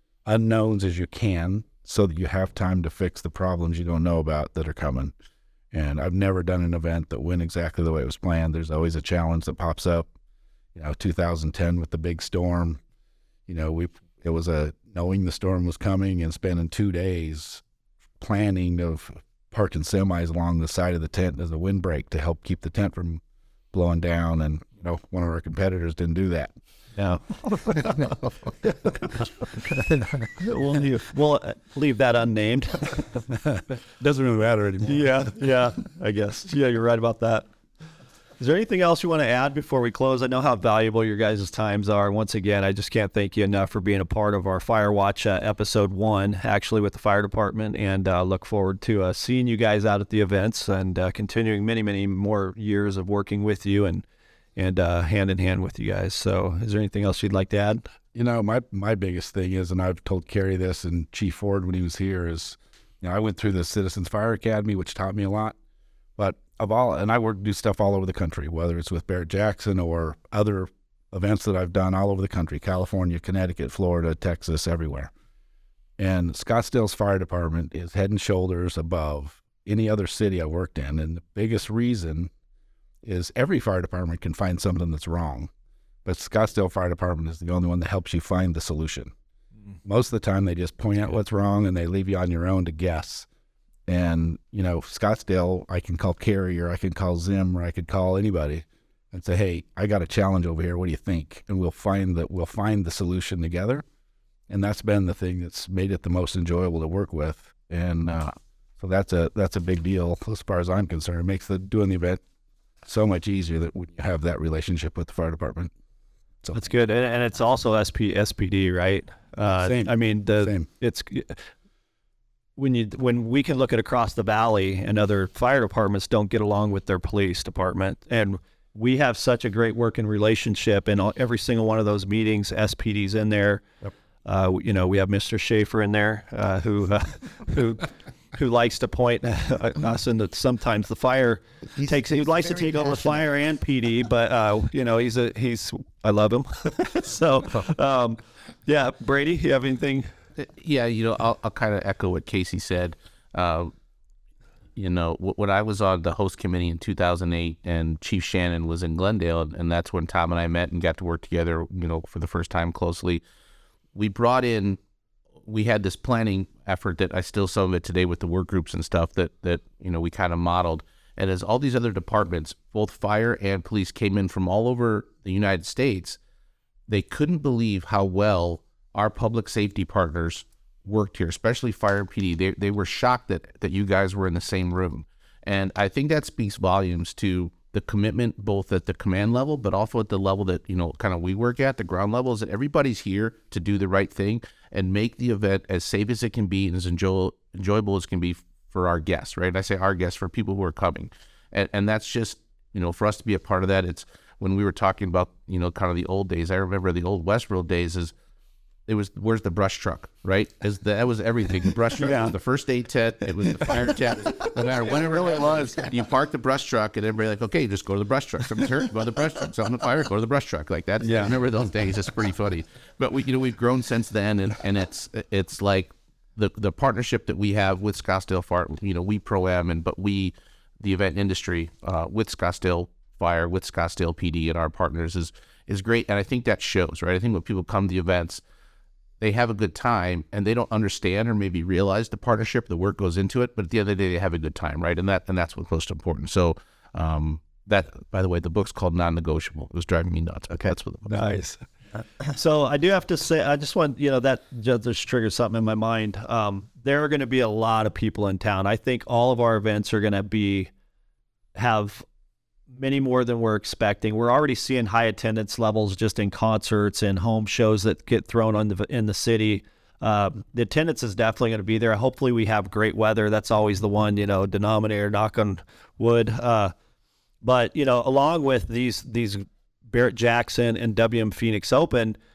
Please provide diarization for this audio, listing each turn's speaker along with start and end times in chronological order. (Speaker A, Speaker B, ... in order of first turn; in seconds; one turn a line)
Speaker A: 0.2-5.1
Speaker A: 5.7-10.1
Speaker A: 10.7-12.8
Speaker A: 13.5-17.6
Speaker A: 18.2-23.2
Speaker A: 23.7-26.5
Speaker B: 26.9-33.1
Speaker A: 33.3-35.2
Speaker B: 34.9-37.5
Speaker B: 38.4-54.0
Speaker B: 54.5-57.9
Speaker A: 58.1-65.5
Speaker A: 66.2-75.1
Speaker A: 76.0-82.3
Speaker A: 83.0-85.5
Speaker A: 86.0-89.1
Speaker A: 89.8-93.3
Speaker A: 93.9-103.8
Speaker A: 104.5-112.2
Speaker A: 112.8-115.7
Speaker A: 116.4-116.7
Speaker B: 116.5-121.4
Speaker A: 119.6-120.7
Speaker B: 122.6-150.1
Speaker C: 150.4-153.7
Speaker C: 154.8-163.2
Speaker C: 163.9-164.8
Speaker C: 165.4-176.2
Speaker C: 176.9-208.1
Speaker C: 208.8-238.4
Speaker B: 212.0-212.3
Speaker C: 239.2-251.1
Speaker B: 251.1-251.6
Speaker B: 252.2-260.7
Speaker B: 261.5-262.1
Speaker B: 262.7-276.7
Speaker B: 277.4-282.2